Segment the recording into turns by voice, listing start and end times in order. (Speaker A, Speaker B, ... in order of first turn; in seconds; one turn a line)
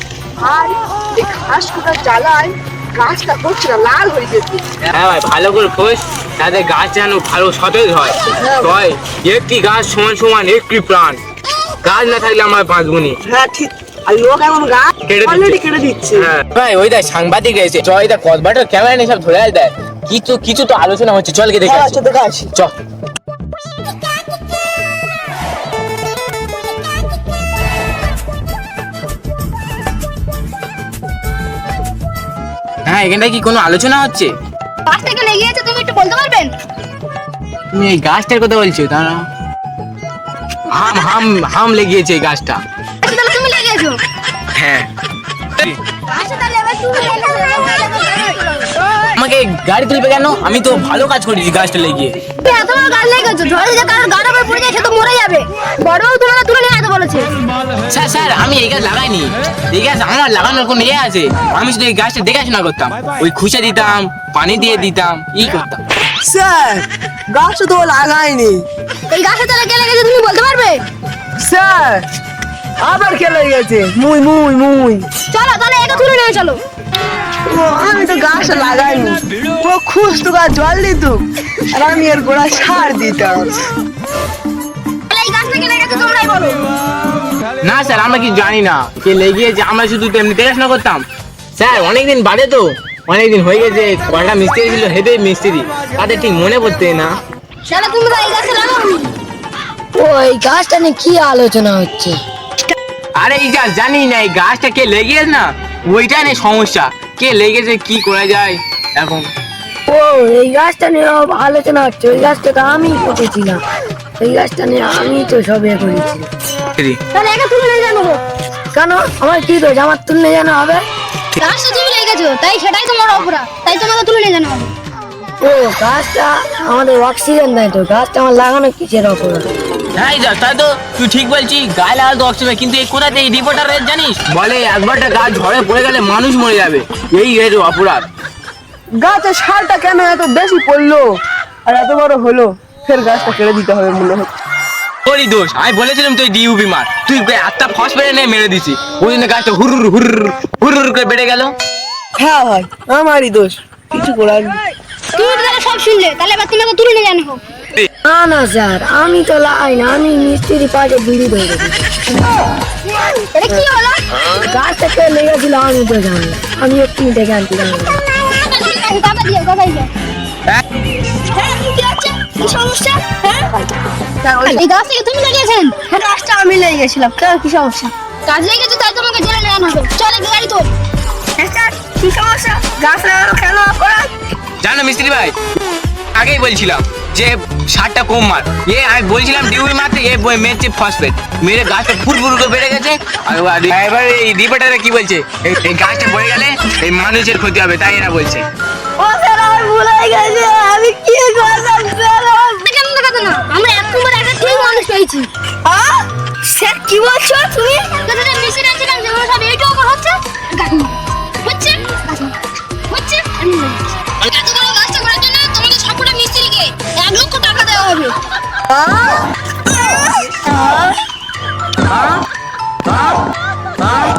Speaker A: 0.4-4.6
Speaker B: 4.8-11.2
Speaker A: 8.4-8.7
Speaker B: 11.8-13.2
Speaker A: 13.2-16.3
Speaker B: 15.1-15.6
Speaker B: 16.1-22.0
Speaker A: 21.6-22.5
Speaker B: 32.9-34.3
Speaker C: 34.8-36.5
Speaker B: 37.7-39.2
Speaker B: 40.7-42.6
Speaker C: 43.0-44.0
Speaker B: 44.5-44.9
Speaker C: 46.1-48.7
Speaker B: 49.1-52.2
Speaker C: 52.4-57.3
Speaker B: 57.9-65.8
Speaker A: 66.2-68.6
Speaker C: 69.1-70.8
Speaker A: 71.4-72.0
Speaker A: 72.8-75.1
Speaker C: 75.3-76.6
Speaker A: 77.5-83.5
Speaker C: 85.1-86.6
Speaker B: 87.6-97.2
Speaker C: 97.7-99.1
Speaker D: 100.0-102.2
Speaker B: 103.2-109.3
Speaker D: 109.9-113.6
Speaker D: 114.2-116.3
Speaker C: 117.1-118.2
Speaker D: 118.7-120.8
Speaker C: 121.3-124.7
Speaker D: 125.4-129.5
Speaker B: 130.0-138.1
Speaker A: 139.0-144.3
Speaker B: 145.1-151.5
Speaker A: 152.2-154.6
Speaker C: 155.1-157.4
Speaker D: 158.0-161.8
Speaker C: 163.3-164.0
Speaker D: 164.4-168.0
Speaker C: 168.0-169.9
Speaker C: 171.3-173.5
Speaker A: 174.2-174.6
Speaker C: 174.4-180.7
Speaker A: 176.2-177.5
Speaker A: 181.4-184.1
Speaker B: 184.6-185.3
Speaker B: 186.1-198.4
Speaker A: 199.0-202.4
Speaker C: 202.4-205.3
Speaker A: 205.7-207.8
Speaker C: 207.8-212.3
Speaker C: 212.9-218.1
Speaker A: 218.7-219.2
Speaker B: 221.9-222.1